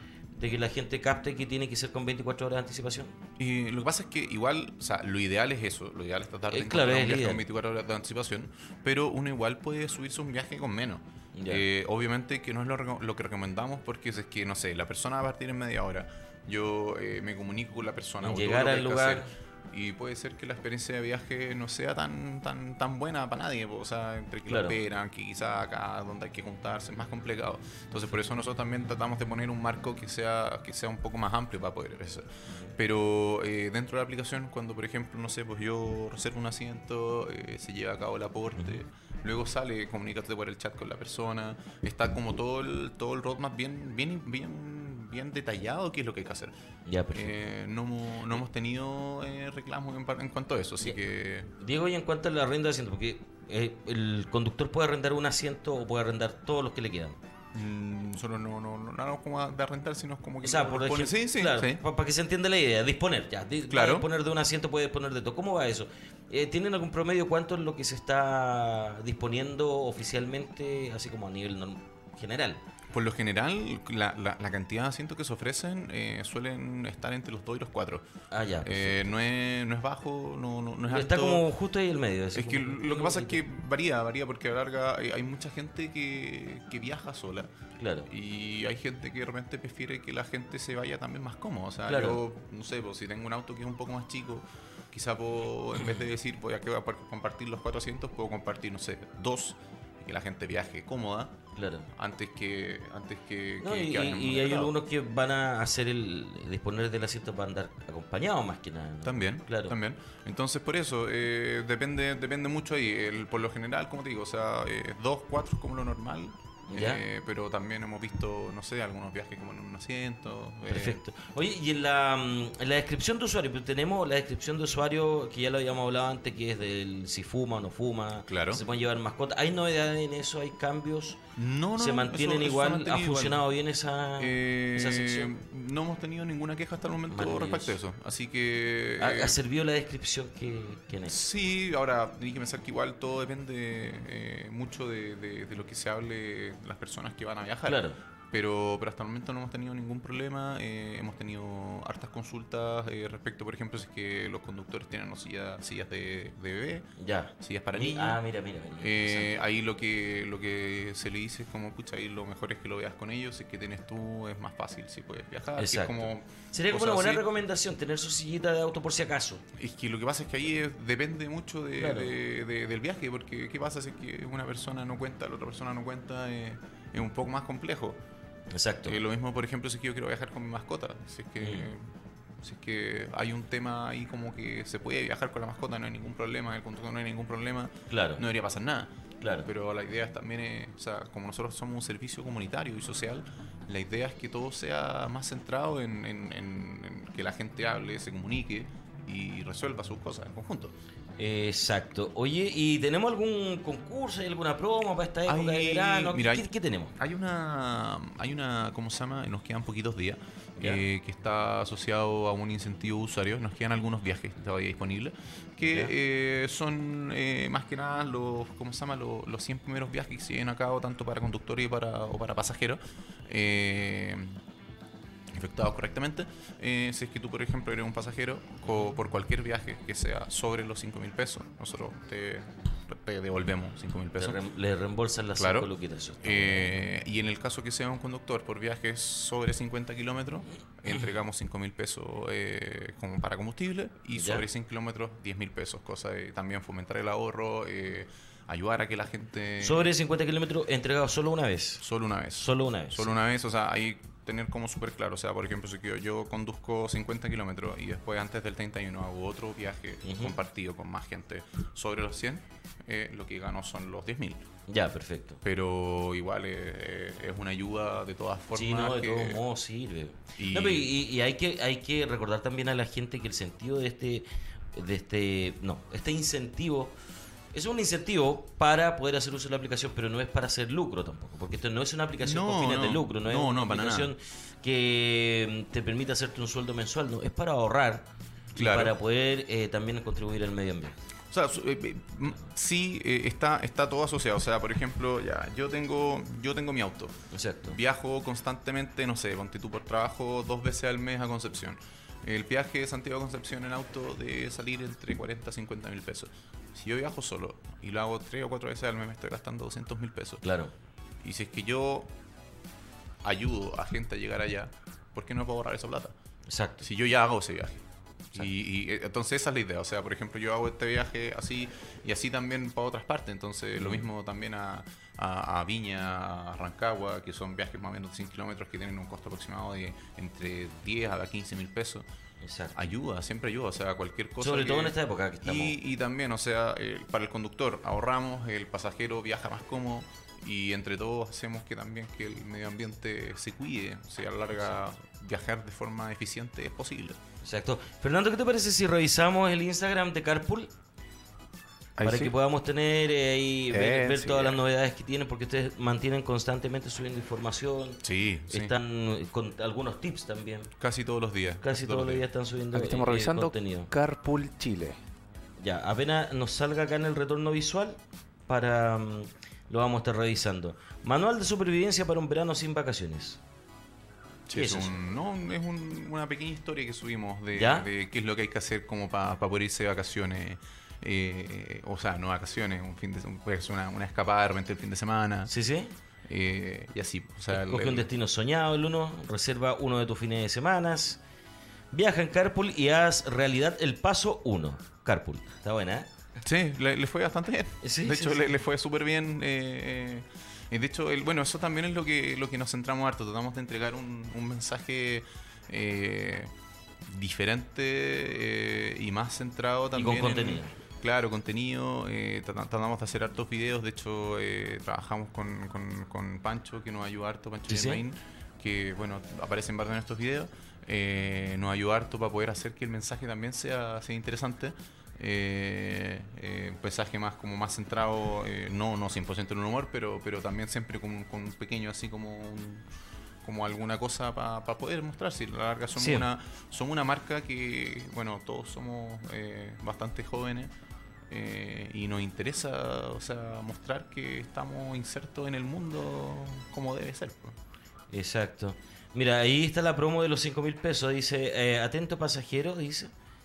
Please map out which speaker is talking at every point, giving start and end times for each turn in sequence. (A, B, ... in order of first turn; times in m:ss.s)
0:00.4-0:03.1 A
0:03.4-0:46.5 B
0:06.5-0:07.4 A
0:11.3-0:11.6 A
0:18.2-0:19.3 A
0:24.5-0:24.8 A
0:46.9-0:47.3 A
0:47.1-0:51.5 B
0:51.6-0:57.2 A
0:57.5-1:01.8 B
1:00.4-1:12.6 A
1:03.7-1:04.1 B
1:12.9-1:18.0 B
1:18.3-1:19.1 A
1:18.6-1:21.4 B
1:20.9-1:23.4 A
1:22.3-1:27.5 B
1:27.8-1:28.1 A
1:28.1-1:41.4 B
1:31.9-1:32.2 A
1:41.6-1:41.9 A
1:41.9-1:44.7 B
1:43.6-1:49.7 A
1:49.0-2:01.0 B
1:56.7-1:57.0 A
2:00.7-2:11.2 A
2:08.3-2:08.6 B
2:11.4-2:13.4 B
2:11.8-2:15.3 A
2:14.2-2:19.4 B
2:17.1-2:17.7 A
2:19.0-2:21.2 A
2:21.1-2:38.2 B
2:27.6-2:28.0 A
2:37.0-2:39.4 A
2:38.8-2:47.2 B
2:45.6-2:49.4 A
2:49.6-2:58.0 B
2:51.8-2:52.1 A
2:58.5-2:59.0 A
2:58.8-3:01.9 B
3:01.4-3:01.7 A
3:02.4-3:08.9 B
3:07.9-3:08.2 A
3:09.2-3:09.5 A
3:09.4-3:20.7 B
3:21.2-3:26.9 A
3:25.3-3:44.4 B
3:30.6-3:30.8 A
3:35.6-3:35.9 A
3:45.3-3:54.4 B
3:48.6-3:48.9 A
3:54.2-3:56.7 A
3:55.4-3:55.7 B
3:56.2-4:09.9 B
4:04.1-4:04.4 A
4:09.6-4:11.8 A
4:11.8-4:24.4 B
4:12.4-4:13.1 A
4:20.0-4:20.3 A
4:24.7-4:25.4 A
4:25.4-4:29.4 B
4:28.5-4:36.9 A
4:30.4-4:30.9 B
4:37.5-4:51.0 A
4:42.2-4:44.1 B
4:48.6-4:48.9 B
4:51.3-4:57.2 B
4:57.3-4:57.8 A
4:57.7-5:10.4 B
5:10.4-5:10.7 A
5:11.2-5:12.1 B
5:13.2-5:16.1 B
5:16.5-5:16.8 A
5:16.8-5:32.0 B
5:23.8-5:24.0 A
5:32.4-5:32.8 A
5:32.7-5:47.2 B
5:34.4-5:35.8 A
5:47.4-5:50.7 A
5:52.0-5:52.3 C
5:52.0-6:00.7 A
5:53.7-5:54.6 C
5:58.0-5:58.7 B
6:00.8-6:02.2 B
6:01.6-6:03.9 A
6:02.7-6:05.0 C
6:05.6-6:13.4 A
6:14.5-6:25.5 B
6:14.5-6:14.9 A
6:17.5-6:17.9 A
6:25.5-6:25.9 A
6:26.3-6:28.1 B
6:27.5-6:31.2 A
6:31.9-6:36.1 A
6:36.4-6:46.5 B
6:37.8-6:38.5 A
6:47.1-7:12.8 B
6:49.9-6:50.7 A
6:57.7-6:58.0 A
7:13.4-7:20.7 B
7:16.0-7:16.2 A
7:21.3-7:27.6 B
7:28.1-7:33.1 A